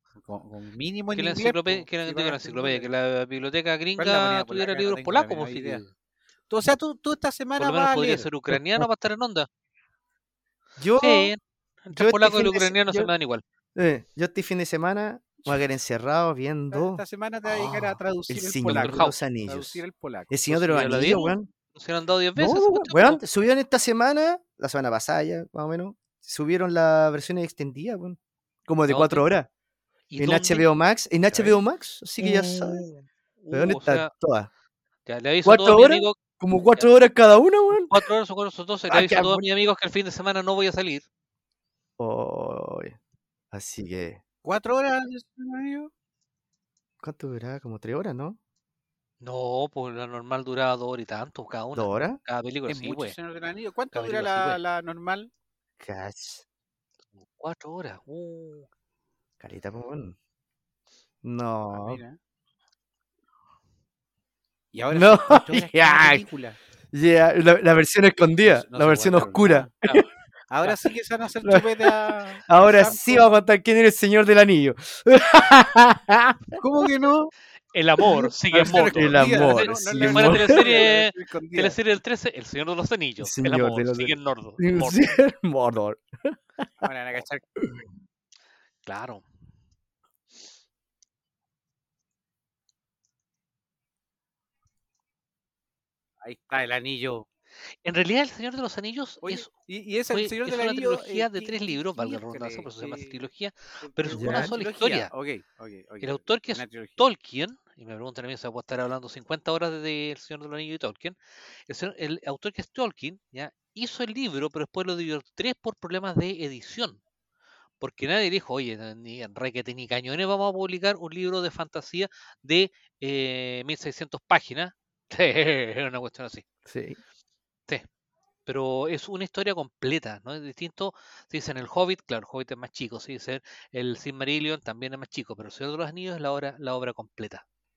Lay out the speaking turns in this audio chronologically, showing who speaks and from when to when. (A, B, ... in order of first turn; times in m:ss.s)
0:00.2-0:02.9 A
0:01.2-0:05.9 B
0:04.0-0:05.8 A
0:06.5-0:08.3 A
0:07.6-0:09.5 B
0:08.5-0:08.9 C
0:10.8-0:11.3 C
0:11.0-0:13.4 B
0:11.9-0:13.1 C
0:13.8-0:21.5 C
0:16.7-0:20.4 A
0:18.7-0:19.1 B
0:20.5-0:23.2 B
0:22.4-0:29.5 C
0:28.9-0:29.2 B
0:30.1-0:30.6 B
0:30.2-0:32.9 C
0:31.3-0:31.6 B
0:32.2-0:34.1 B
0:33.5-0:34.5 C
0:35.1-0:36.2 B
0:35.4-0:38.1 C
0:37.7-0:41.0 B
0:38.9-0:39.4 C
0:42.0-0:43.0 C
0:43.5-0:44.2 C
0:44.4-0:45.9 A
0:47.0-0:48.4 C
0:49.2-0:53.2 B
0:51.8-0:52.2 C
0:52.7-0:55.3 A
0:53.9-0:54.6 B
0:55.8-0:56.4 C
0:57.2-0:58.7 B
0:59.4-1:00.2 C
1:01.2-1:02.0 C
1:01.7-1:02.2 A
1:04.7-1:06.6 A
1:04.9-1:06.2 C
1:06.9-1:10.1 C
1:08.4-1:09.7 A
1:10.5-1:13.3 A
1:11.4-1:16.6 C
1:16.6-1:17.3 A
1:17.7-1:25.2 B
1:18.5-1:21.8 A
1:18.9-1:20.8 C
1:23.2-1:26.7 C
1:26.8-1:27.4 A
1:27.6-1:27.8 C
1:28.8-1:29.2 B
1:36.2-1:37.3 A
1:37.7-1:39.5 B
1:39.2-1:43.2 A
1:40.1-1:45.1 B
1:43.8-1:47.0 A
1:44.1-1:44.5 C
1:46.0-1:57.0 B
1:57.8-2:06.5 B
2:06.7-2:07.0 C
2:08.5-2:17.4 B